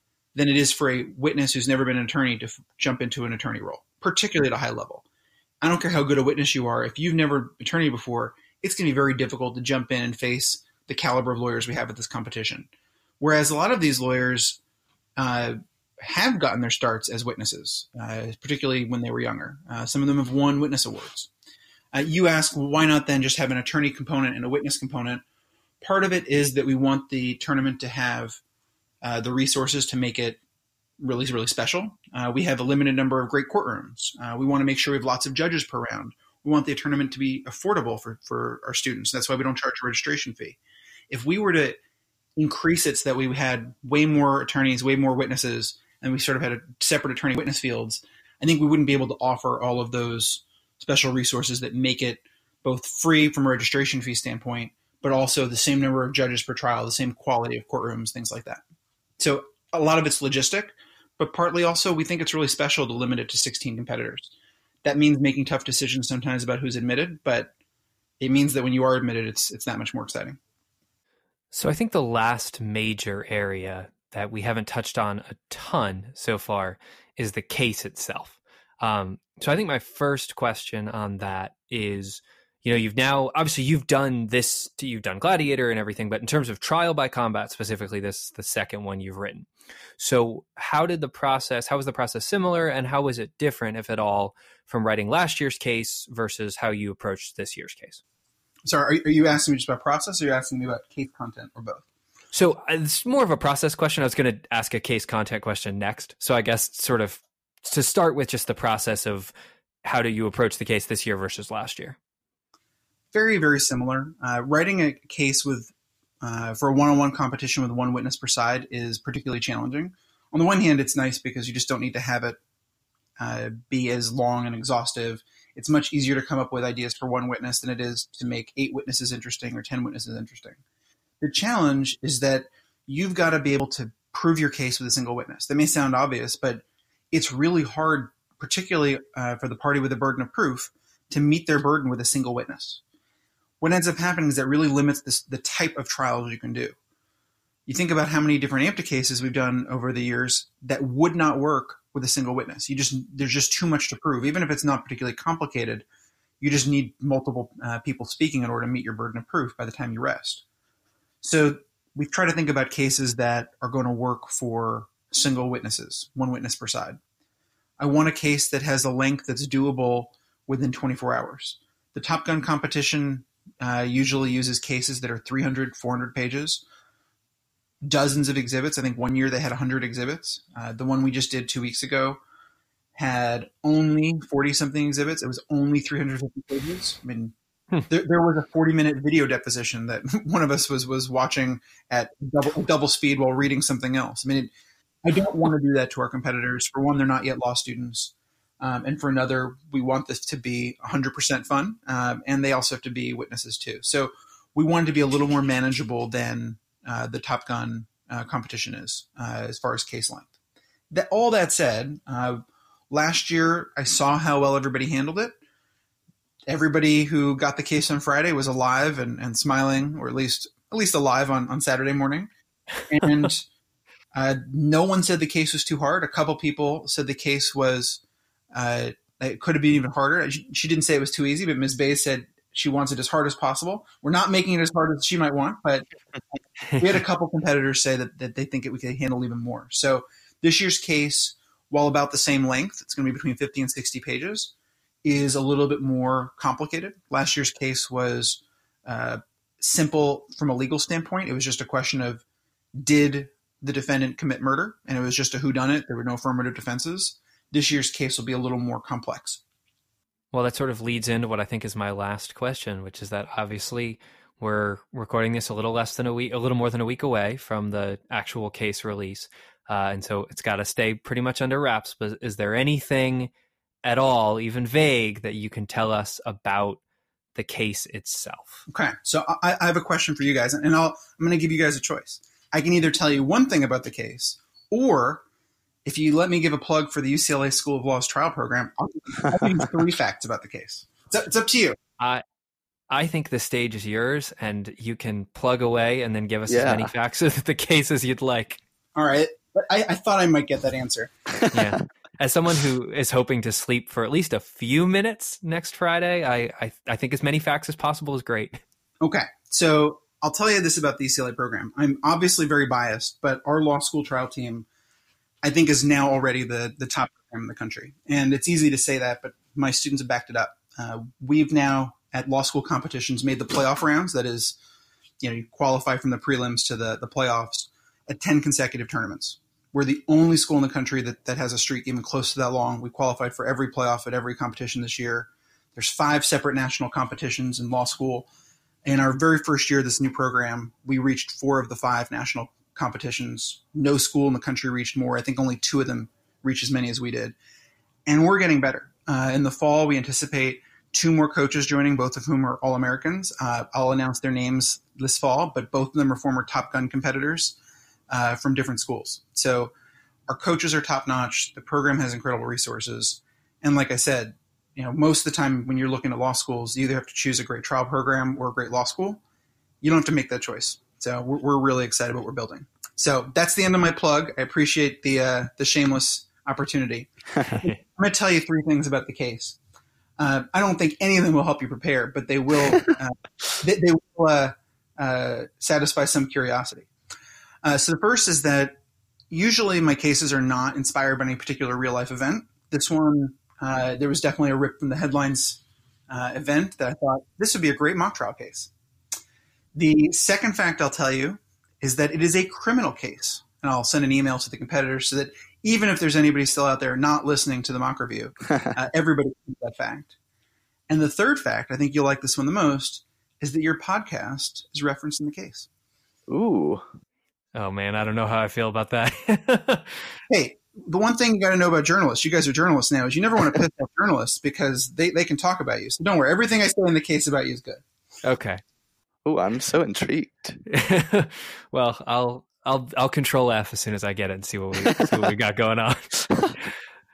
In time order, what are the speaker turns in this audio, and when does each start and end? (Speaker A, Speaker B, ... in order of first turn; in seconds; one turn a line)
Speaker A: 0.3-5.0
Speaker A: 5.6-12.7
Speaker A: 13.2-14.6
Speaker A: 15.2-21.3
Speaker A: 21.9-25.2
Speaker A: 25.8-28.4
Speaker A: 29.0-30.4
Speaker A: 31.0-40.6
Speaker A: 41.1-41.8
Speaker A: 42.4-58.6
Speaker A: 59.2-64.3
Speaker A: 64.8-67.5
Speaker A: 68.2-70.4
Speaker B: 71.5-98.0
Speaker A: 98.6-101.8
Speaker B: 102.3-109.3
Speaker B: 109.8-112.0
Speaker A: 113.1-122.4
Speaker A: 123.2-130.6
Speaker A: 131.2-142.8
Speaker A: 143.6-146.7
Speaker A: 147.7-155.8
Speaker A: 156.4-160.4
Speaker A: 161.2-167.0
Speaker A: 167.8-176.6
Speaker A: 177.8-182.2
Speaker A: 182.9-187.3
Speaker A: 187.9-194.5
Speaker A: 195.0-210.3
Speaker A: 210.9-215.3
Speaker A: 216.5-222.3
Speaker A: 222.9-223.4
Speaker A: 224.1-235.8
Speaker A: 236.7-244.5
Speaker A: 245.0-252.2
Speaker A: 252.8-259.4
Speaker B: 260.3-273.3
Speaker B: 273.8-276.8
Speaker B: 277.3-278.6
Speaker A: 278.7-285.2
Speaker A: 285.8-291.8
Speaker B: 292.9-298.6
Speaker C: 296.5-296.9
Speaker A: 298.9-301.1
Speaker C: 301.3-301.8
Speaker B: 301.5-308.6
Speaker A: 309.0-314.7
Speaker A: 315.4-324.6
Speaker A: 325.2-338.3
Speaker A: 338.8-347.4
Speaker A: 348.1-357.6
Speaker A: 358.1-359.7
Speaker A: 360.3-369.2
Speaker A: 369.8-379.6
Speaker A: 380.2-386.9
Speaker A: 387.6-388.8
Speaker A: 389.3-398.7
Speaker A: 399.7-410.1
Speaker A: 410.9-415.7
Speaker C: 416.3-416.8
Speaker B: 417.5-420.0
Speaker A: 420.3-427.8
Speaker B: 428.2-428.6
Speaker C: 429.2-430.6
Speaker B: 430.7-436.7